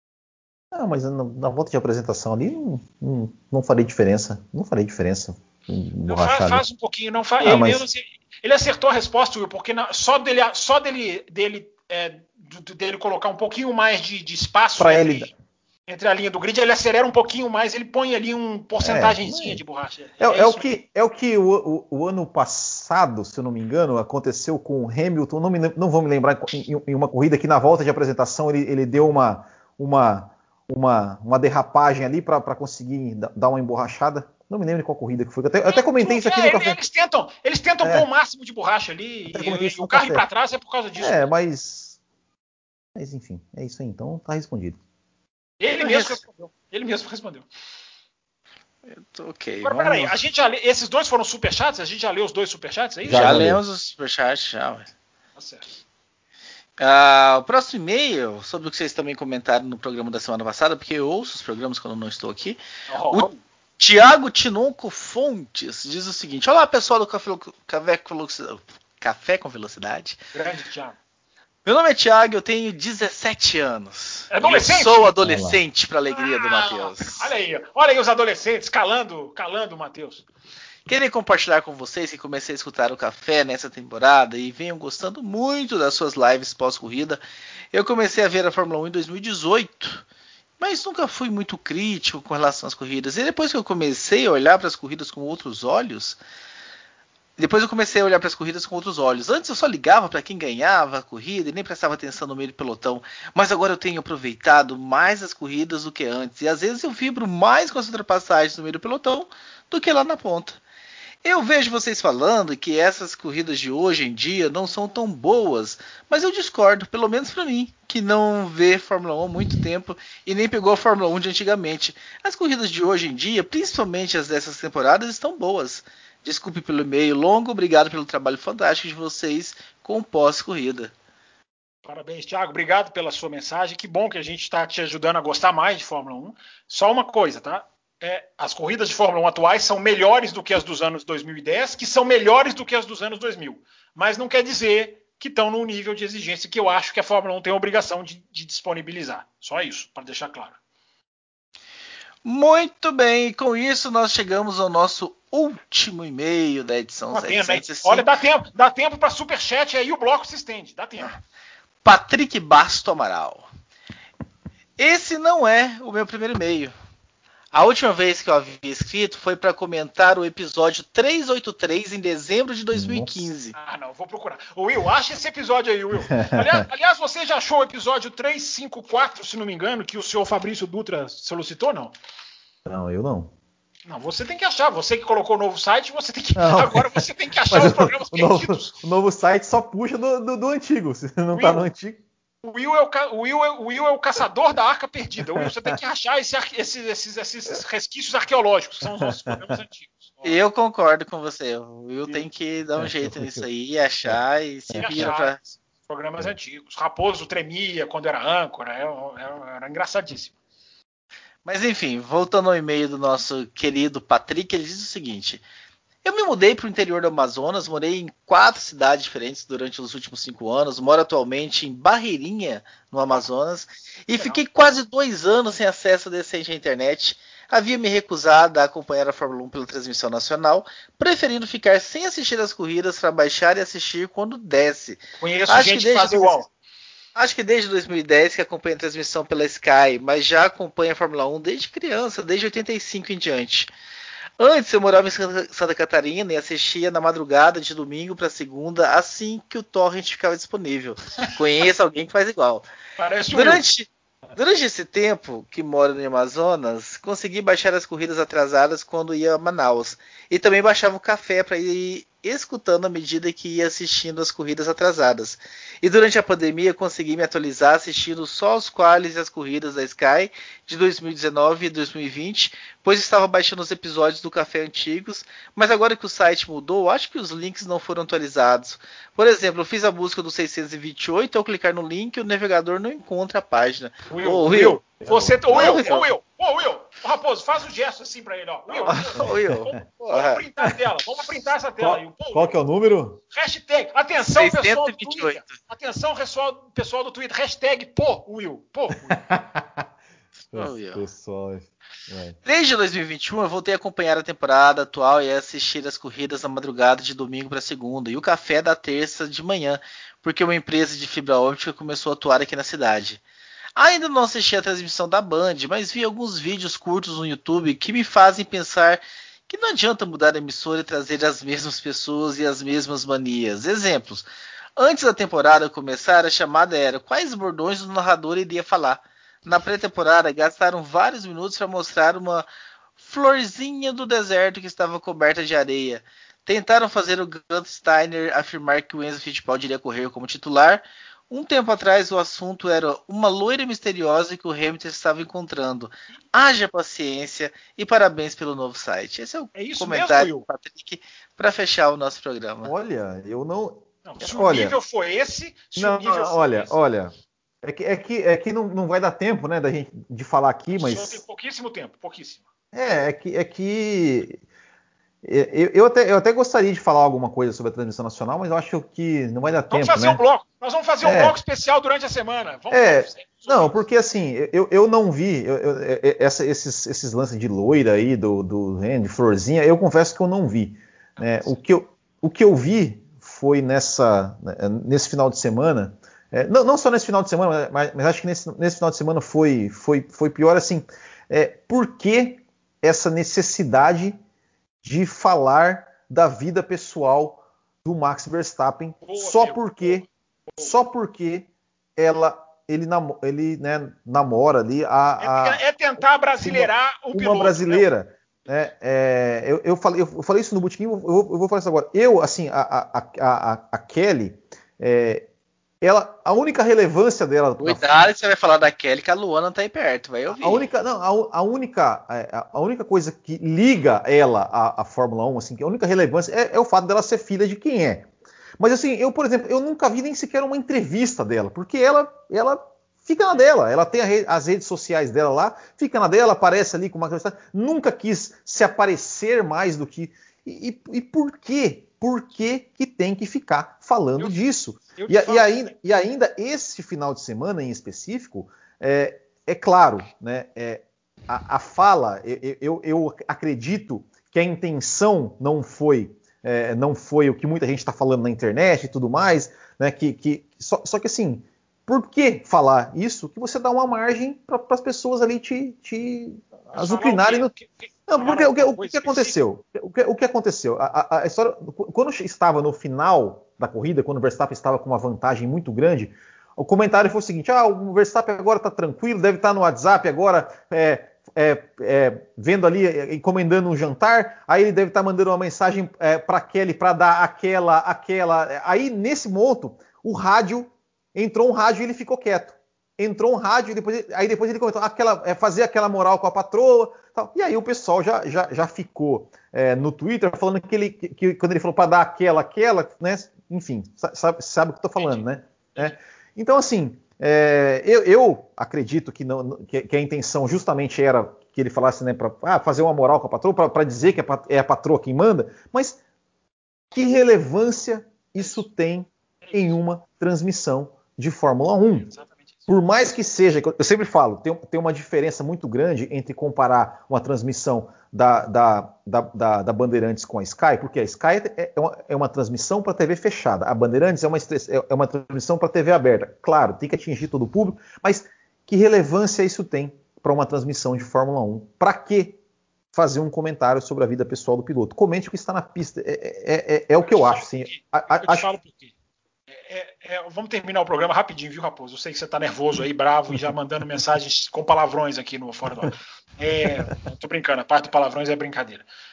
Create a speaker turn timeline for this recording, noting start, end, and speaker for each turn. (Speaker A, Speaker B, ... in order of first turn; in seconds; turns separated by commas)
Speaker A: 0.7-6.6, Speaker B: 6.1-15.3, Speaker A: 7.4-7.8, Speaker A: 14.8-15.3, Speaker B: 15.9-20.7, Speaker A: 18.8-19.6, Speaker A: 20.2-36.8, Speaker B: 35.7-41.3, Speaker A: 39.3-40.2, Speaker A: 41.0-42.0, Speaker A: 43.0-44.8, Speaker B: 45.6-47.5, Speaker C: 45.8-46.2, Speaker C: 48.9-50.2, Speaker B: 49.6-53.4, Speaker A: 53.0-53.6, Speaker C: 53.1-54.9, Speaker B: 55.4-55.6, Speaker C: 56.8-62.6, Speaker B: 62.9-63.4, Speaker C: 63.1-70.2, Speaker B: 70.3-71.0, Speaker C: 71.7-77.3, Speaker B: 74.3-75.1, Speaker A: 75.2-75.6, Speaker B: 76.1-80.2, Speaker C: 80.9-87.2, Speaker C: 87.7-90.0, Speaker C: 90.6-96.2, Speaker C: 97.4-110.6, Speaker C: 111.2-130.9, Speaker B: 131.8-150.6, Speaker C: 152.2-158.1, Speaker B: 157.1-161.2, Speaker C: 161.8-163.5, Speaker C: 164.8-166.7, Speaker C: 167.5-173.6, Speaker A: 172.7-173.1, Speaker B: 173.6-181.9, Speaker A: 176.1-176.6, Speaker A: 182.7-183.3, Speaker B: 183.9-188.8, Speaker A: 186.4-192.0, Speaker B: 191.3-191.7, Speaker B: 192.4-200.4, Speaker A: 199.0-199.4, Speaker C: 200.2-205.6, Speaker A: 202.8-203.4, Speaker A: 204.7-205.1, Speaker B: 204.8-205.3, Speaker B: 205.9-210.3, Speaker C: 211.4-215.4, Speaker C: 216.0-236.4, Speaker B: 224.2-224.4, Speaker B: 235.2-236.5, Speaker C: 237.2-243.7, Speaker C: 244.4-252.7, Speaker B: 253.0-253.6, Speaker C: 253.3-284.8, Speaker B: 284.1-292.6, Speaker A: 285.0-285.8, Speaker C: 285.5-286.1, Speaker C: 288.8-290.4, Speaker A: 291.8-293.2, Speaker B: 293.3-299.2, Speaker C: 294.4-295.6, Speaker A: 299.1-299.8, Speaker A: 300.5-302.4, Speaker C: 300.5-301.1, Speaker C: 302.4-313.2, Speaker C: 313.8-332.5, Speaker C: 333.0-352.7, Speaker B: 349.6-350.4, Speaker A: 352.6-354.8, Speaker B: 354.1-356.8, Speaker A: 355.8-361.2, Speaker B: 360.8-362.4, Speaker A: 362.7-364.4, Speaker A: 365.2-370.2, Speaker B: 369.7-373.8, Speaker A: 371.0-371.4, Speaker A: 372.7-394.2, Speaker B: 381.2-381.6, Speaker A: 394.8-400.1, Speaker B: 399.0-400.7, Speaker A: 400.6-405.6, Speaker B: 405.2-407.9, Speaker A: 406.4-415.3, Speaker A: 415.8-417.9, Speaker C: 417.6-420.7, Speaker A: 420.3-428.1, Speaker A: 428.6-467.5, Speaker B: 445.0-445.7, Speaker B: 466.7-469.4, Speaker A: 468.1-516.0, Speaker B: 505.0-505.2, Speaker A: 516.9-522.1, Speaker B: 519.4-519.8, Speaker B: 522.0-522.5, Speaker A: 522.7-542.4, Speaker A: 542.9-548.5, Speaker B: 547.0-548.9, Speaker B: 549.5-558.9